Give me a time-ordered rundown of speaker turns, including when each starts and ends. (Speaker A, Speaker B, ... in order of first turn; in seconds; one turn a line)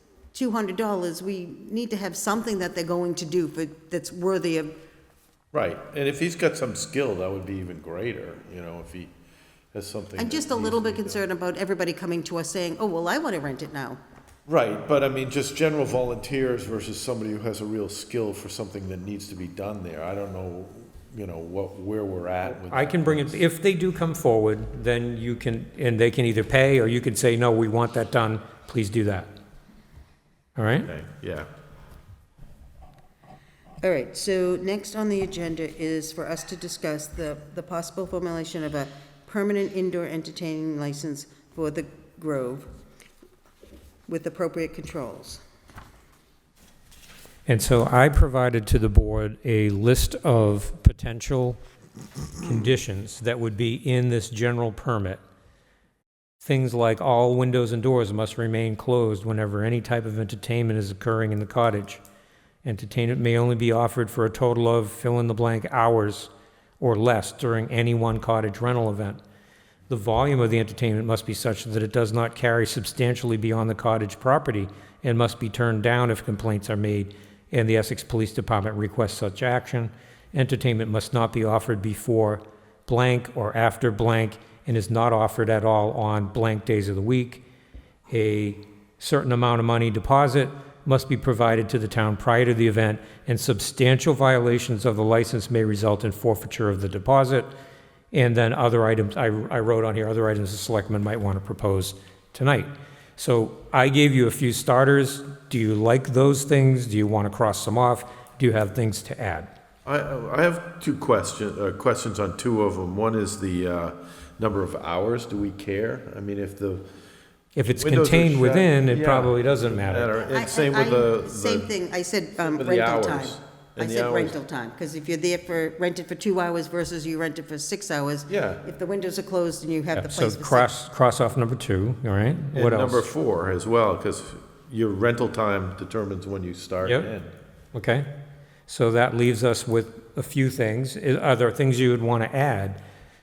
Speaker A: 0.3-4.7
Speaker B: 5.5-9.1
Speaker B: 9.7-11.2
Speaker A: 10.2-14.0
Speaker B: 14.5-23.4
Speaker C: 22.5-29.3
Speaker C: 30.6-30.9
Speaker B: 30.8-31.5
Speaker A: 33.8-42.7
Speaker A: 44.1-45.4
Speaker C: 47.5-51.6
Speaker C: 52.4-55.2
Speaker C: 56.4-62.0
Speaker C: 62.6-69.2
Speaker C: 69.9-87.4
Speaker C: 88.1-97.5
Speaker C: 98.1-109.5
Speaker B: 109.8-116.9
Speaker C: 117.5-120.1
Speaker B: 117.8-121.7
Speaker A: 120.2-130.7
Speaker B: 122.5-124.3
Speaker B: 128.3-128.6
Speaker C: 129.9-133.0
Speaker B: 132.5-137.3
Speaker C: 137.7-138.1
Speaker C: 138.7-142.8